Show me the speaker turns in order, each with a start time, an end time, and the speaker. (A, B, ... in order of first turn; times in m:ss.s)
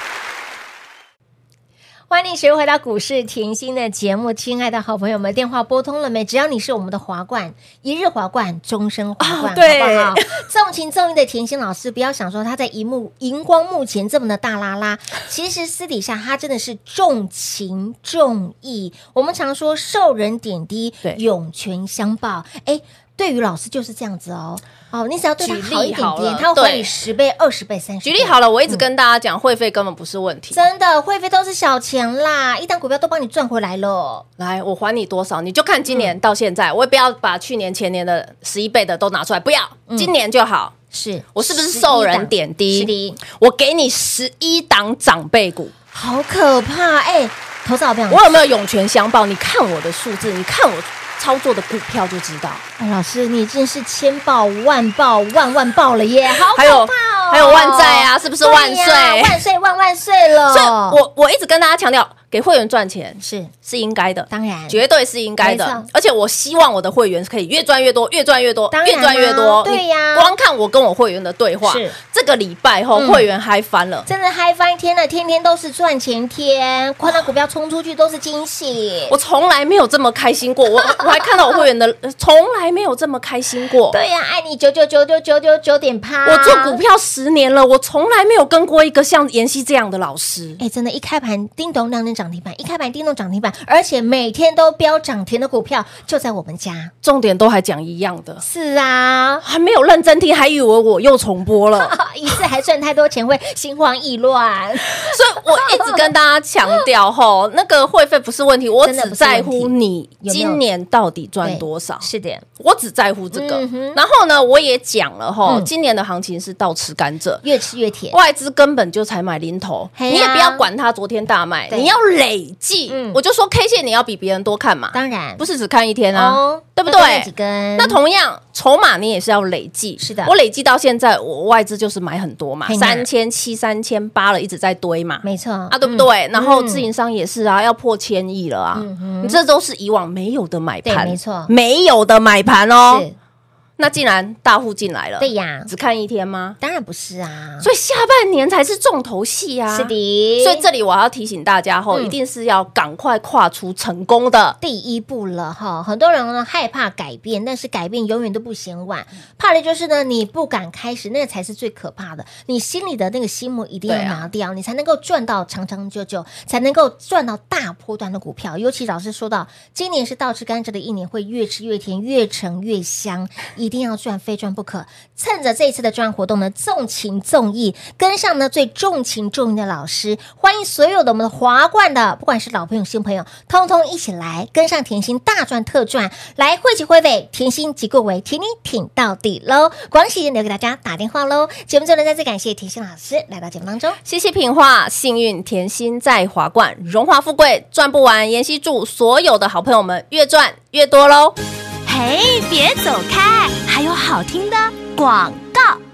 0:02.1-0:28.8 A
0:09.2-0:10.4 B
0:25.4-0:26.9 B
0:28.0-0:30.6 B
0:30.5-0:34.3 A
0:34.4-0:40.7 B
0:40.9-0:43.2 A
0:41.4-0:45.7 B
0:45.9-0:48.3 A
0:48.1-0:52.6 B
0:52.8-1:01.0 A
0:56.5-0:59.4 B
1:00.5-1:14.1 B
1:03.2-1:03.5 A
1:04.3-1:04.8 A
1:05.4-1:05.9 A
1:08.7-1:10.3 A
1:11.6-1:12.0 A
1:12.9-1:13.3 A
1:14.1-1:19.1 A
1:19.1-1:24.0 B
1:20.8-1:21.6 A
1:23.9-1:26.8 A
1:26.2-1:30.6 B
1:30.6-1:36.9 A
1:37.0-1:38.4 B
1:38.4-1:39.4 A
1:39.4-1:42.0 B
1:41.8-1:46.1 A
1:45.0-1:52.1 B
1:48.8-1:50.6 A
1:51.4-1:52.4 A
1:52.6-1:57.4 B
1:53.3-1:54.0 A
1:57.4-1:58.2 A
1:58.1-2:23.1 B
2:00.0-2:00.6 A
2:01.7-2:02.0 A
2:02.9-2:03.2 A
2:04.9-2:05.4 A
2:06.1-2:08.0 A
2:10.0-2:10.4 A
2:12.6-2:13.1 A
2:15.2-2:16.9 A
2:18.7-2:19.4 A
2:20.8-2:21.5 A
2:22.9-2:23.2 A
2:23.8-2:26.6 B
2:25.2-2:25.7 A
2:26.6-2:27.7 A
2:27.6-2:34.6 B
2:29.7-2:30.6 A
2:34.6-3:14.0 A
2:43.9-2:44.3 B
3:14.0-3:21.4 B
3:21.9-3:25.8 C